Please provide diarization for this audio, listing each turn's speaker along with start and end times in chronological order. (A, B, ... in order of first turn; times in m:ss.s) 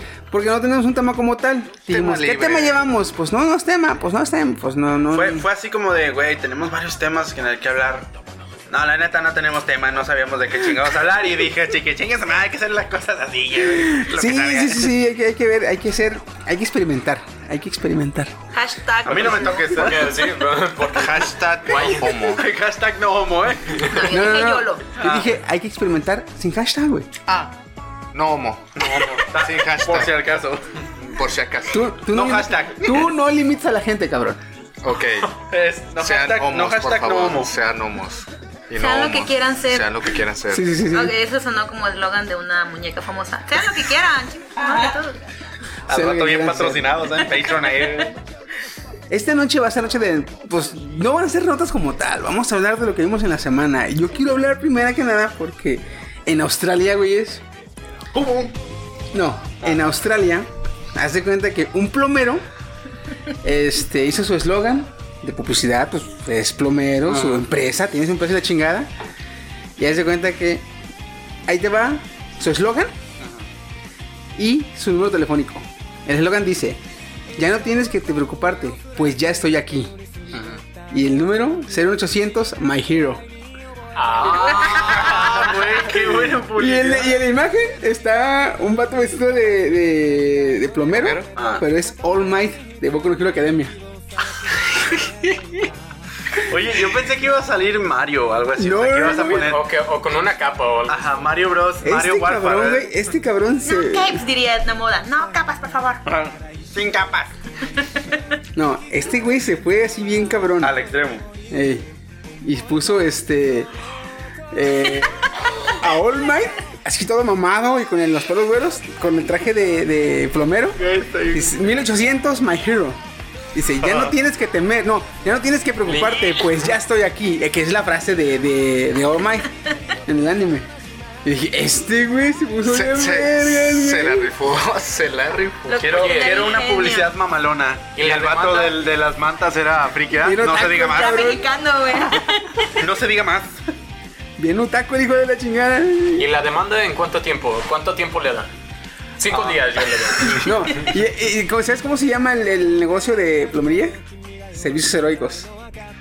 0:00.3-0:05.5 A
0:01.9-0:02.8 B
0:05.1-0:08.1 C
0:08.7-0:15.0 C
0:13.8-0:18.4 A
0:18.5-0:19.9 D
0:19.0-0:20.2 C
0:19.7-0:22.1 E
0:20.9-0:22.5 B
0:22.2-0:24.0 C
0:23.8-0:25.0 D
0:24.1-0:27.1 A
0:25.0-0:25.3 C
0:28.1-0:30.3 B
0:28.8-0:30.6 C
0:31.1-0:31.8 B
0:31.7-0:34.4 A
0:32.1-0:33.0 C
0:34.8-0:35.3 B
0:35.5-0:37.5 C
0:36.0-0:40.7 B
0:38.8-0:40.0 D
0:40.5-0:41.2 A
0:40.8-0:45.2 D
0:45.9-0:47.0 A
0:45.9-0:48.2 C
0:47.7-0:48.1 D
0:49.1-0:57.4 A
0:58.2-0:58.6 C
0:59.1-1:02.4 A
1:03.4-1:08.9 A
1:07.1-1:07.4 C
1:09.8-1:10.7 A
1:11.5-1:12.9 A
1:14.4-1:16.8 A
1:17.4-1:20.0 A
1:20.3-1:20.6 C
1:20.9-1:23.2 A
1:24.0-1:25.5 E
1:24.3-1:27.2 C
1:26.5-1:33.8 A
1:31.0-1:31.3 B
1:31.4-1:31.6 C
1:36.4-1:39.6 C
1:38.6-1:39.4 A
1:39.1-1:41.0 E
1:40.9-1:42.9 C
1:41.8-1:44.2 A
1:43.7-1:46.0 D
1:46.1-1:47.3 C
1:48.6-1:50.8 A
1:50.6-1:51.3 C
1:51.5-1:51.9 A
1:52.4-1:53.7 A
1:54.5-2:03.0 A
2:00.8-2:01.6 C
2:03.5-2:09.5 A
2:05.8-2:06.6 E
2:10.1-2:10.7 A
2:11.2-2:14.3 A
2:12.6-2:15.8 B
2:15.7-2:17.1 D
2:15.7-2:21.3 C
2:15.8-2:16.6 E
2:18.0-2:18.8 E
2:20.2-2:22.0 A
2:20.5-2:22.8 D
2:22.8-2:23.5 C
2:24.4-2:26.3 A
2:26.2-2:28.5 E
2:29.2-2:30.9 E
2:29.3-2:29.6 C
2:30.3-2:34.0 A
2:34.5-2:35.5 A